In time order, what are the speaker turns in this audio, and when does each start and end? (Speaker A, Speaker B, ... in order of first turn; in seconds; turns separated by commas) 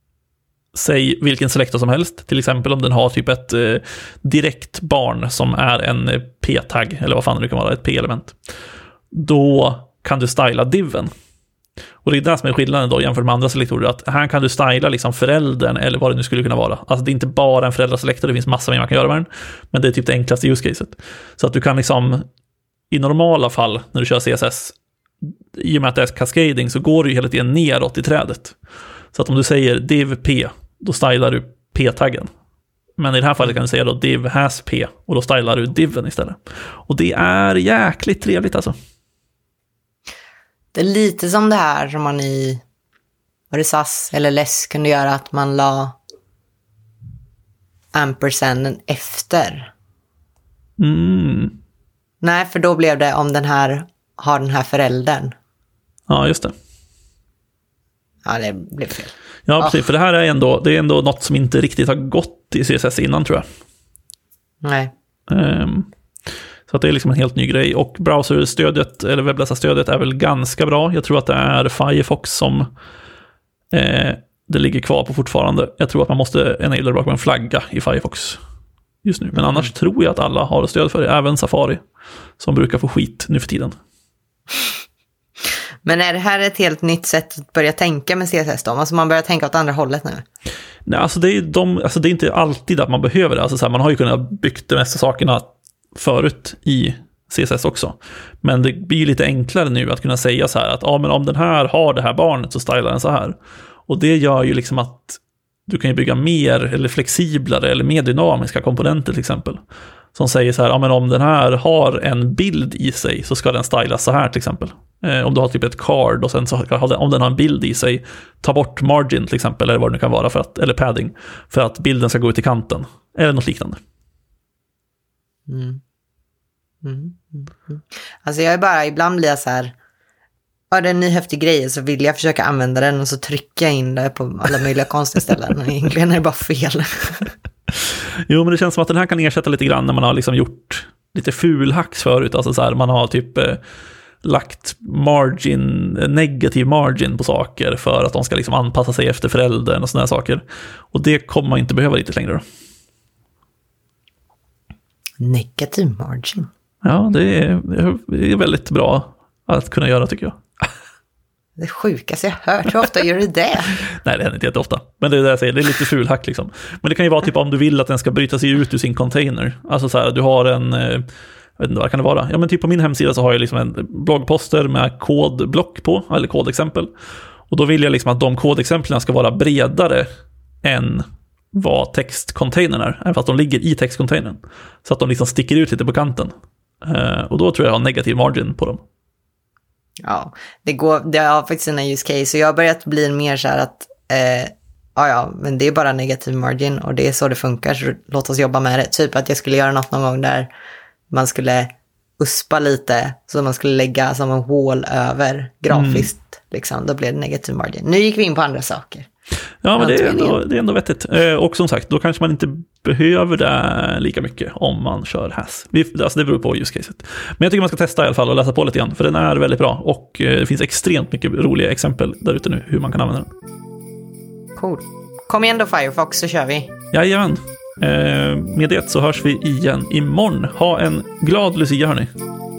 Speaker A: 0.7-8.3, Speaker A: 9.1-11.1, Speaker A: 12.0-22.2, Speaker A: 22.9-24.8, Speaker A: 25.5-28.6, Speaker A: 29.1-32.3, Speaker A: 33.0-38.7, Speaker B: 40.8-42.6, Speaker B: 43.5-46.0, Speaker B: 47.9-49.7, Speaker A: 50.8-51.6, Speaker B: 52.2-55.3, Speaker A: 56.1-56.5, Speaker B: 58.2-59.8, Speaker A: 59.5-63.4, Speaker B: 64.6-64.9, Speaker A: 65.3-65.9, Speaker A: 66.7-72.7, Speaker A: 73.7-78.4, Speaker A: 79.0-81.8, Speaker B: 79.3-79.7, Speaker A: 82.4-83.7, Speaker B: 85.8-90.2, Speaker A: 90.8-103.3, Speaker A: 103.9-109.6, Speaker A: 110.1-123.8, Speaker B: 125.5-125.8, Speaker B: 126.8-129.8, Speaker B: 130.7-137.3, Speaker A: 137.7-143.6, Speaker A: 144.2-152.4, Speaker B: 155.2-156.5, Speaker A: 156.8-160.4, Speaker B: 161.6-163.8, Speaker A: 163.9-171.1, Speaker A: 171.6-176.9, Speaker A: 177.5-180.1, Speaker A: 180.6-186.3, Speaker A: 186.8-188.8, Speaker B: 190.0-200.5, Speaker B: 201.1-209.1, Speaker A: 205.7-206.1, Speaker A: 209.6-223.3, Speaker B: 209.8-210.4, Speaker B: 224.6-226.7, Speaker A: 226.9-232.1